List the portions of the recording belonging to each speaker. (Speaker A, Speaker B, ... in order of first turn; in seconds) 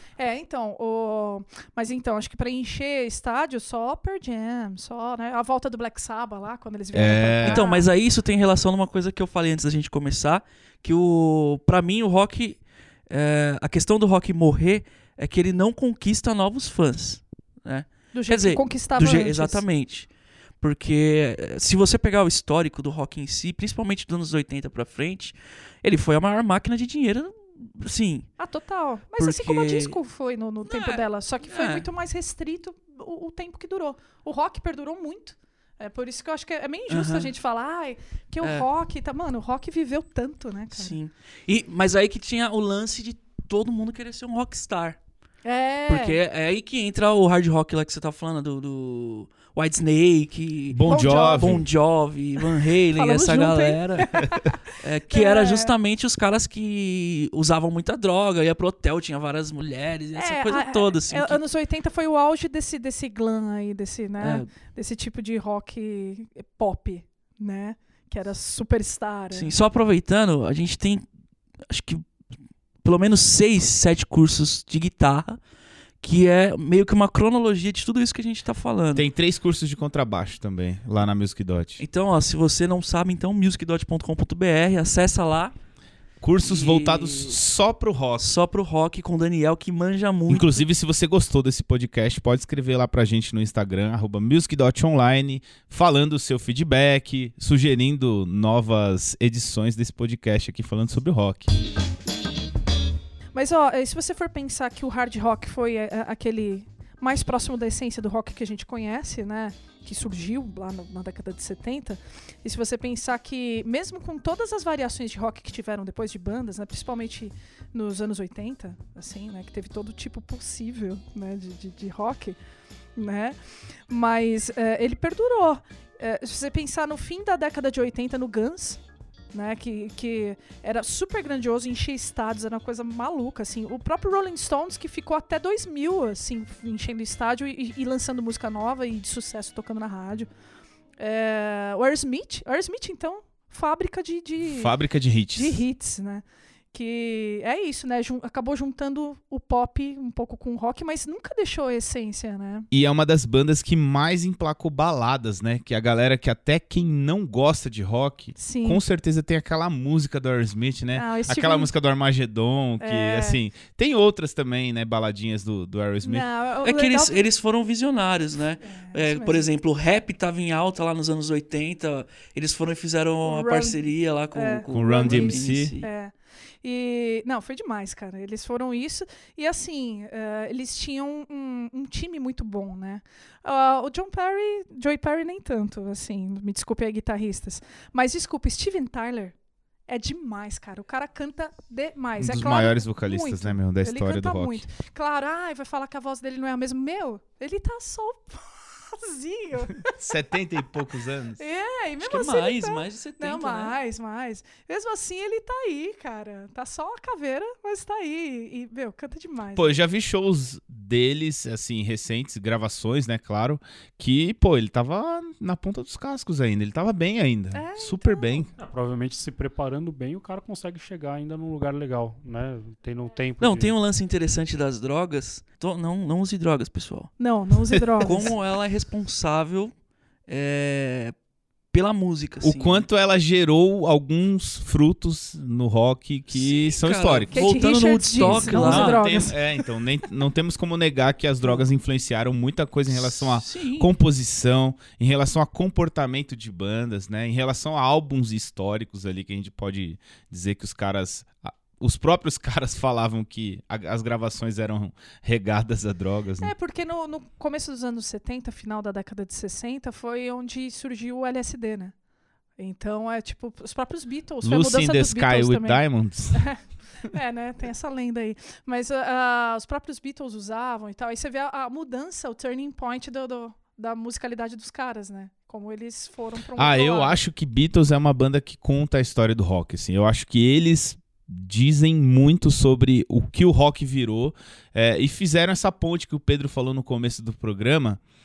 Speaker A: 0.2-7.9, 18.1-19.6, 28.4-41.0, 45.4-46.2, 50.9-51.6, 52.9-54.6, 55.1-55.7, 60.1-69.5, 103.3-122.4, 123.0-123.4, 123.9-128.8, 129.3-140.3, 141.0-144.7, 145.3-152.7, 158.3-158.8, 160.9-161.7, 162.8-163.4, 166.0-167.2, 168.8-169.5, 173.2-173.8, 174.3-189.3, 189.9-200.1, 201.4-209.7, 217.5-218.5, 227.2-228.3, 237.3-239.4, 256.4-261.9, 262.6-265.8, 266.3-277.2
Speaker B: 6.9-7.6, 50.7-51.6, 78.9-81.8, 86.2-88.3, 90.3-101.5, 144.4-145.6, 152.7-166.2, 174.7-175.7, 192.2-194.6, 199.8-201.4, 209.5-218.5, 232.4-237.5, 238.2-256.5, 264.4-266.4, 276.6-288.0
Speaker C: 7.4-20.1, 20.6-28.3, 29.2-30.0, 30.6-31.9, 36.9-37.3, 38.4-38.7, 40.7-45.0, 45.9-61.4, 64.2-64.5, 69.3-71.0, 71.7-72.0, 72.8-75.4, 76.0-79.1, 81.8-85.5, 86.4-87.4, 88.2-90.6, 166.6-175.9, 202.0-203.8, 223.4-227.1, 228.0-229.7, 230.3-231.1, 231.7-232.8, 236.3-239.0, 242.9-243.9
Speaker D: 218.6-223.7